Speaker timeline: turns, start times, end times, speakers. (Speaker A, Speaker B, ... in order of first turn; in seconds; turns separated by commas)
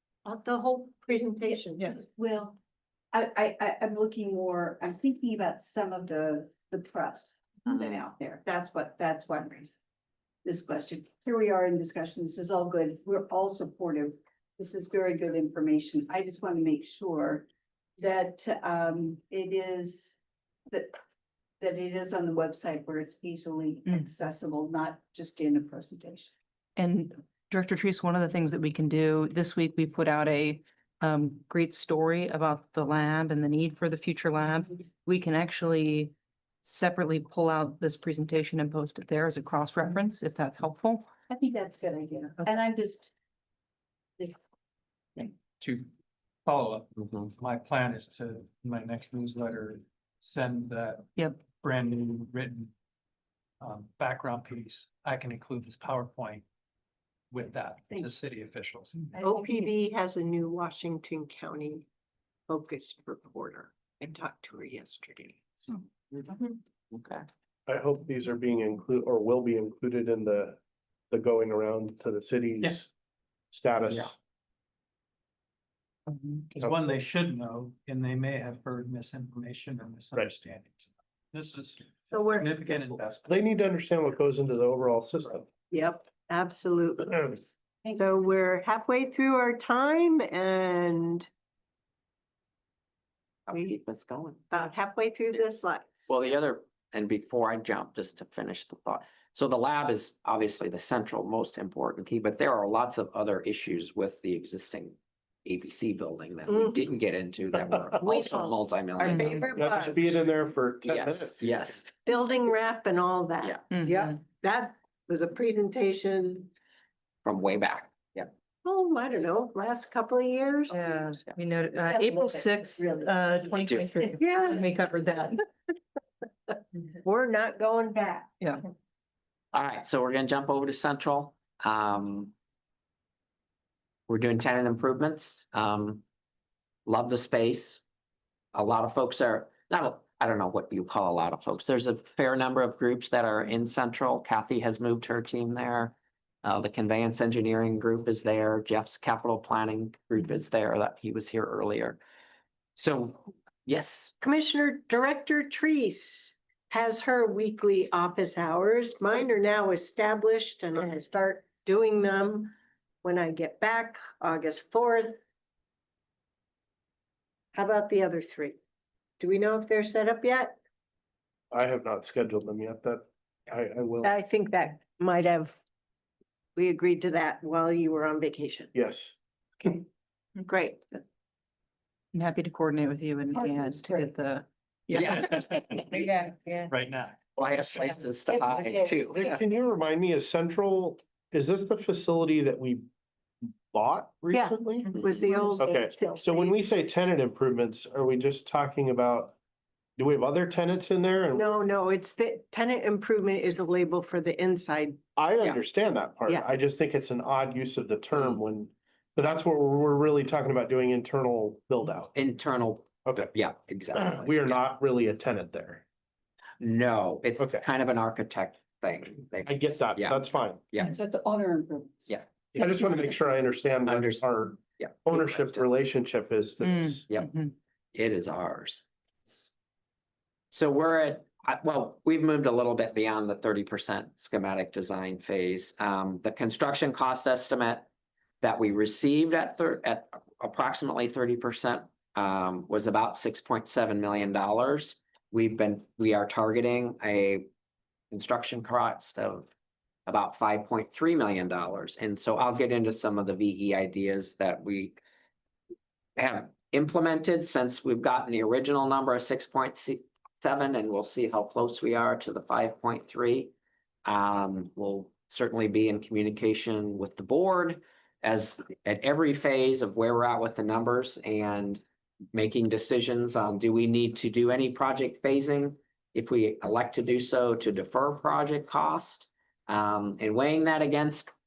Speaker A: 0.2-1.9, Speaker B: 1.5-2.6, Speaker B: 3.1-9.8, Speaker B: 10.4-17.4, Speaker B: 18.0-21.0, Speaker B: 21.6-26.3, Speaker C: 26.8-41.0, Speaker B: 41.3-43.1, Speaker D: 45.6-45.9, Speaker D: 46.5-52.7, Speaker C: 51.2-51.5, Speaker D: 53.6-56.4, Speaker D: 57.3-59.2, Speaker B: 59.2-59.5, Speaker A: 59.2-61.8, Speaker A: 62.5-65.7, Speaker E: 66.9-67.2, Speaker F: 67.7-70.6, Speaker F: 71.1-72.9, Speaker F: 73.5-74.1, Speaker C: 76.1-76.4, Speaker D: 76.4-83.3, Speaker F: 76.6-76.9, Speaker A: 82.1-82.5, Speaker F: 83.2-85.5, Speaker A: 85.7-87.3, Speaker B: 87.8-88.1, Speaker A: 88.0-91.3, Speaker E: 93.5-94.4, Speaker A: 94.5-96.1, Speaker E: 96.1-109.8, Speaker A: 106.5-106.8, Speaker A: 108.0-110.0, Speaker C: 109.1-109.4, Speaker F: 109.5-111.4, Speaker E: 110.8-111.9, Speaker A: 112.0-116.5, Speaker C: 113.7-114.2, Speaker E: 117.2-118.3, Speaker A: 118.6-121.1, Speaker C: 120.7-125.4, Speaker B: 121.9-124.1, Speaker E: 123.7-123.9, Speaker A: 124.2-124.6, Speaker A: 127.0-128.3, Speaker E: 129.5-132.3, Speaker E: 134.1-136.0, Speaker E: 136.8-137.8, Speaker E: 138.5-152.0, Speaker E: 152.8-154.1, Speaker A: 154.2-165.2, Speaker A: 167.5-168.6, Speaker A: 169.2-170.6, Speaker F: 171.5-174.1, Speaker A: 174.0-175.6, Speaker A: 176.6-178.7, Speaker F: 178.7-179.1, Speaker A: 180.4-180.9, Speaker C: 182.1-185.9, Speaker E: 184.9-185.2, Speaker D: 185.4-186.0, Speaker D: 186.7-187.2, Speaker E: 187.3-189.4, Speaker F: 189.1-192.9, Speaker F: 193.7-194.9, Speaker A: 194.3-196.5, Speaker B: 195.2-195.6, Speaker F: 195.6-199.3, Speaker F: 200.0-201.6, Speaker A: 201.3-205.0, Speaker F: 205.2-212.1, Speaker E: 212.1-214.6, Speaker F: 213.9-215.8, Speaker E: 216.6-220.9, Speaker F: 217.4-217.6, Speaker F: 219.4-220.6, Speaker B: 220.8-222.2, Speaker F: 222.5-227.0, Speaker E: 223.8-225.7, Speaker C: 226.6-227.5, Speaker E: 227.1-227.3, Speaker E: 227.9-229.5, Speaker E: 230.5-237.9, Speaker E: 238.4-247.4, Speaker E: 248.1-249.5, Speaker E: 250.1-255.0, Speaker E: 256.2-263.5, Speaker E: 264.0-281.3